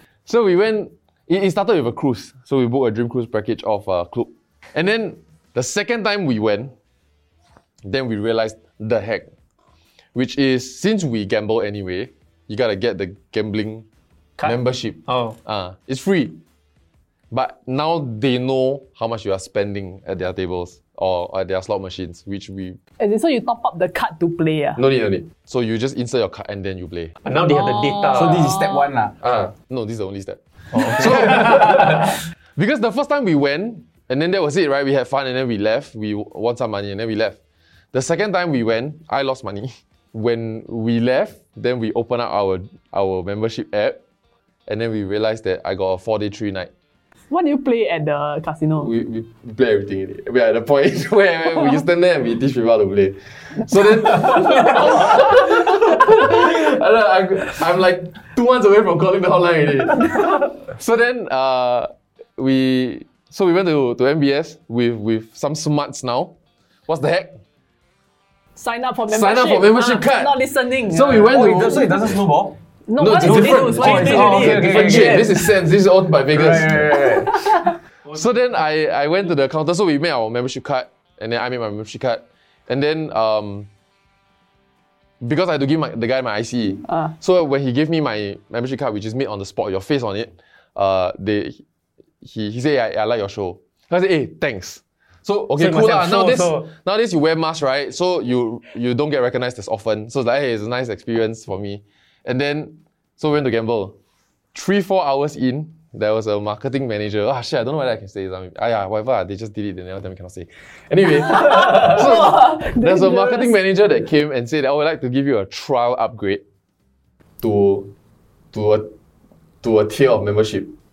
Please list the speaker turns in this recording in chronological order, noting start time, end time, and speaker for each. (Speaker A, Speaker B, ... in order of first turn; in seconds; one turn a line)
Speaker A: 0.3-6.7
Speaker A: 7.8-9.3
Speaker A: 10.1-13.8
Speaker B: 14.4-15.4
Speaker A: 14.4-16.4
Speaker A: 17.3-22.8
Speaker C: 23.0-24.8
Speaker A: 24.8-27.1
Speaker B: 27.2-28.5
Speaker D: 28.1-29.1
Speaker A: 29.2-37.4
Speaker B: 30.7-31.9
Speaker A: 37.9-44.0
Speaker A: 44.7-46.7
Speaker C: 47.3-48.9
Speaker A: 48.8-66.3
Speaker A: 66.9-67.4
Speaker C: 68.5-71.9
Speaker A: 69.1-72.2
Speaker D: 71.3-72.6
Speaker C: 72.9-74.6
Speaker A: 73.0-77.3
Speaker B: 73.2-75.3
Speaker D: 73.8-75.4
Speaker D: 76.3-77.3
Speaker C: 77.1-77.8
Speaker A: 78.0-83.7
Speaker A: 85.2-91.6
Speaker A: 92.2-103.9
Speaker B: 95.6-96.7
Speaker A: 104.5-116.4
Speaker C: 111.9-113.5
Speaker A: 117.4-117.9
Speaker A: 118.5-118.9
Speaker A: 119.6-120.7